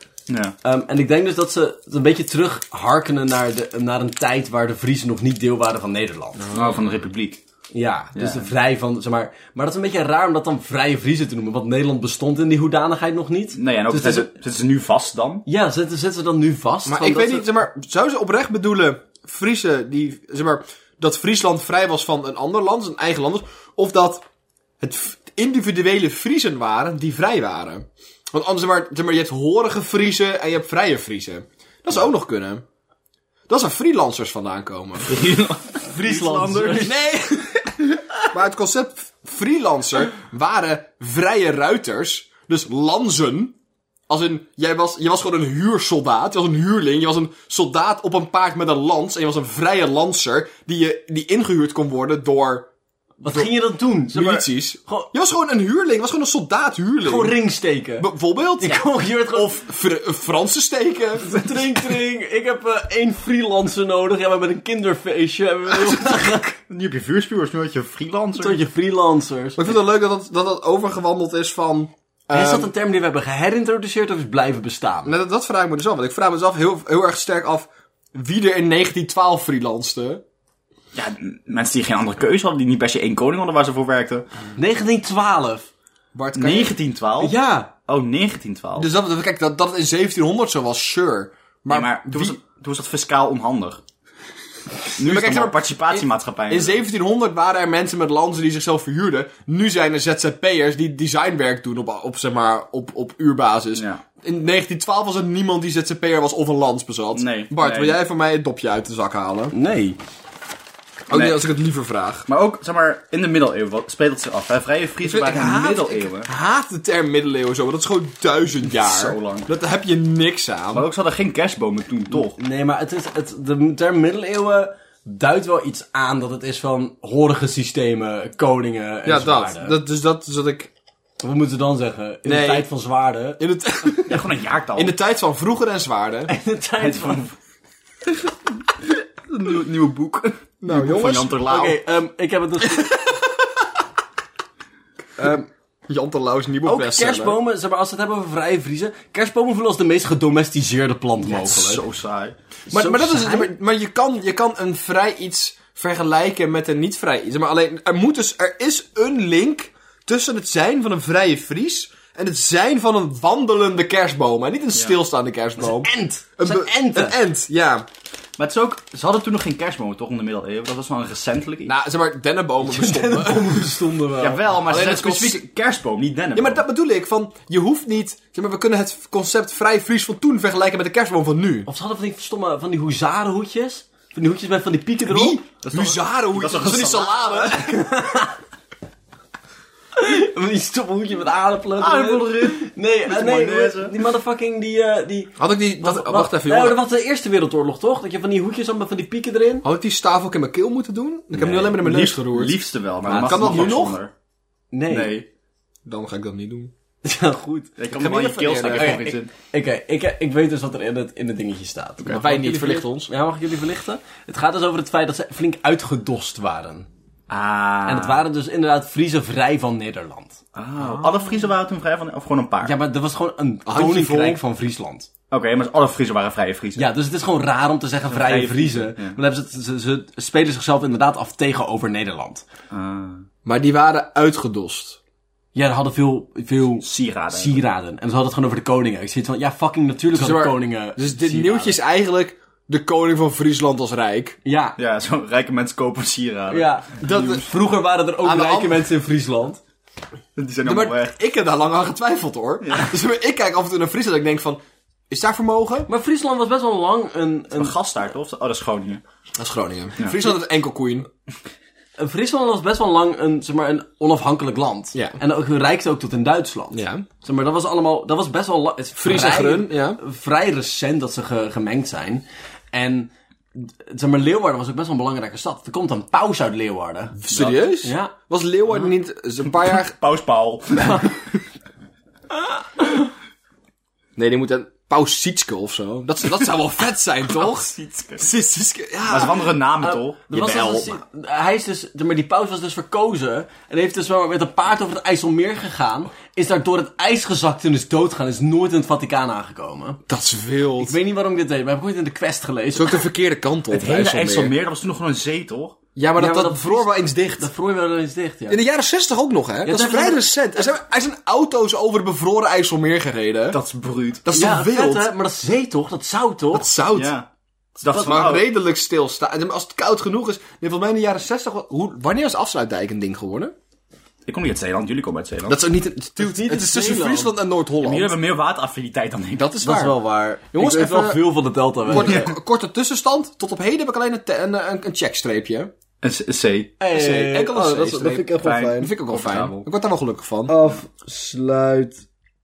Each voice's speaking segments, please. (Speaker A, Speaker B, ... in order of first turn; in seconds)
Speaker A: 0.3-0.5, 6.5-7.4, 8.1-8.5, 13.6-15.4, 35.0-36.9, 66.7-68.6, 80.9-84.3, 86.3-88.9, 91.7-93.8, 95.0-96.8, 103.7-104.0, 107.1-108.0, 111.1-111.4, 112.3-116.3, 118.8-119.5, 120.7-122.4, 134.0-134.9, 136.8-137.3, 139.3-141.8, 151.2-152.3, 164.7-165.0, 168.4-171.8, 174.2-176.6, 185.6-187.6, 191.8-194.0, 201.3-204.1, 204.9-205.3, 207.8-209.3, 217.3-218.2, 220.5-222.7, 225.3-226.9, 228.1-229.2, 232.7-233.2, 236.8-237.6, 244.8-247.4, 250.3-251.2, 252.6-252.9, 257.5-259.0, 260.0-260.3, 277.3-277.6, 279.4-281.2, 287.3-288.3, 289.1-290.9, 303.7-305.8, 313.5-314.2, 316.9-317.3, 317.8-318.5, 324.2-325.6, 327.8-329.5, 336.0-336.8, 338.4-339.6
Speaker B: 0.6-6.5, 7.7-14.3, 15.4-17.5, 35.8-37.0, 53.2-55.1, 57.0-58.1, 58.6-59.6, 61.2-66.6, 68.4-69.6, 72.3-75.2, 84.5-85.7, 87.2-87.7, 109.5-110.0, 122.1-129.8, 131.2-133.4, 136.3-137.3, 141.4-142.9, 146.6-151.8, 152.7-153.5, 165.6-167.2, 172.6-174.4, 181.7-185.4, 187.5-188.4, 189.9-199.7, 203.1-203.7, 204.7-205.2, 207.0-207.8, 208.7-216.9, 217.8-220.4, 222.6-225.1, 226.8-232.4, 235.5-241.8, 244.4-244.8, 246.5-249.6, 255.9-257.7, 262.0-277.2, 277.8-278.1, 280.8-281.1, 282.3-283.1, 289.8-300.0, 300.8-303.0, 306.2-308.6, 309.6-310.2, 314.3-316.7, 326.2-327.3, 329.6-332.3, 336.8-338.9, 340.5-342.0
Speaker C: 6.4-6.8, 16.9-24.2, 24.8-32.6, 33.5-35.4, 36.7-43.5, 44.1-52.7, 54.1-57.4, 58.0-61.7, 69.5-72.7, 75.0-80.2, 86.1-86.8, 88.8-92.4, 95.0-109.5, 111.1-112.2, 115.0-120.9, 129.1-130.7, 132.2-132.7, 133.4-136.3, 140.6-141.4, 142.7-143.5, 145.2-147.4, 152.7-167.8, 171.7-173.8, 174.6-175.4, 176.3-181.7, 185.1-187.7, 195.4-196.8, 199.6-204.0, 205.8-206.7, 207.9-209.1, 212.1-213.1, 223.7-224.4, 233.4-235.0, 240.1-244.4, 247.0-247.5, 248.2-248.9, 250.6-255.9, 259.4-261.1, 266.7-267.1, 269.0-270.0, 277.1-279.9, 284.1-289.6, 300.1-300.9, 302.7-304.5, 305.9-307.5, 308.5-313.6, 314.2-315.1, 316.5-317.1, 317.8-323.5, 325.5-328.1, 329.3-330.0, 330.5-331.3, 331.9-335.7, 336.9-340.5